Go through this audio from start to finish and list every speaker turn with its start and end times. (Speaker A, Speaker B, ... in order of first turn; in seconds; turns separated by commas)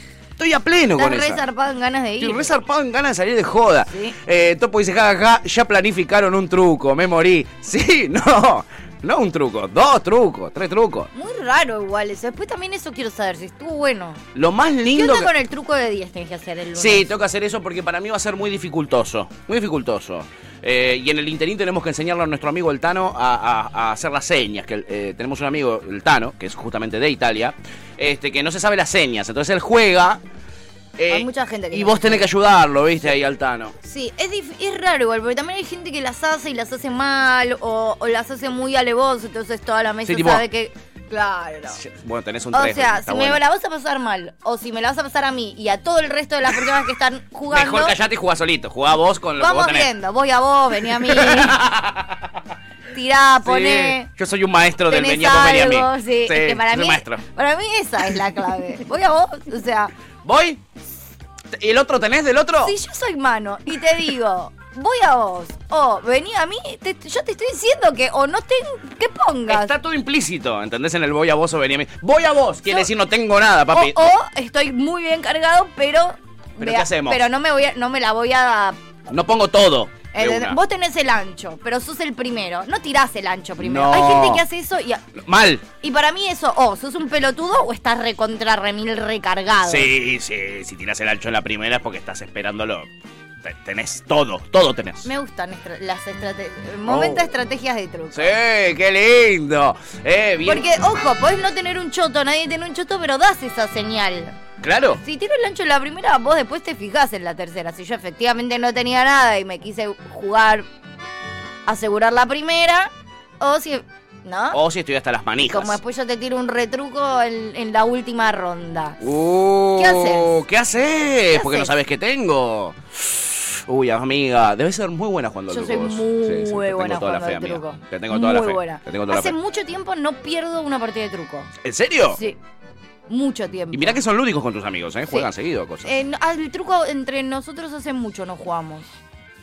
Speaker A: 0.4-1.4, Speaker B: 1.0-2.5, Speaker A: 2.2-11.1, Speaker B: 3.9-4.2, Speaker B: 11.1-14.2, Speaker A: 14.3-15.3, Speaker B: 14.9-17.1, Speaker A: 16.8-30.2, Speaker A: 31.0-33.8, Speaker B: 31.1-32.3, Speaker B: 33.8-41.8, Speaker A: 40.0-40.4, Speaker A: 41.7-43.4, Speaker B: 42.5-48.0, Speaker A: 47.5-49.9, Speaker B: 49.4-51.6, Speaker A: 50.8-52.4, Speaker B: 52.9-54.1, Speaker A: 53.4-57.2, Speaker B: 54.9-59.9, Speaker A: 60.2-60.6, Speaker A: 61.5-62.8, Speaker B: 62.6-69.8, Speaker A: 69.5-74.0, Speaker B: 73.7-78.8, Speaker A: 76.6-77.2, Speaker A: 79.1-80.6, Speaker B: 80.1-85.0, Speaker A: 83.6-84.4, Speaker A: 85.2-85.7, Speaker B: 85.8-89.9, Speaker A: 89.7-92.9, Speaker A: 93.4-95.1, Speaker B: 95.0-98.3, Speaker A: 96.9-97.3, Speaker A: 98.1-100.7, Speaker B: 100.5-104.4, Speaker A: 104.6-105.0, Speaker B: 105.0-110.7, Speaker B: 111.7-114.6, Speaker A: 114.5-115.8, Speaker B: 115.5-119.0, Speaker A: 119.0-129.4, Speaker B: 119.8-120.4, Speaker B: 121.3-121.7, Speaker B: 125.5-131.5, Speaker A: 131.6-132.2, Speaker B: 132.1-132.4, Speaker B: 133.1-134.0, Speaker A: 133.7-135.9, Speaker B: 135.8-138.9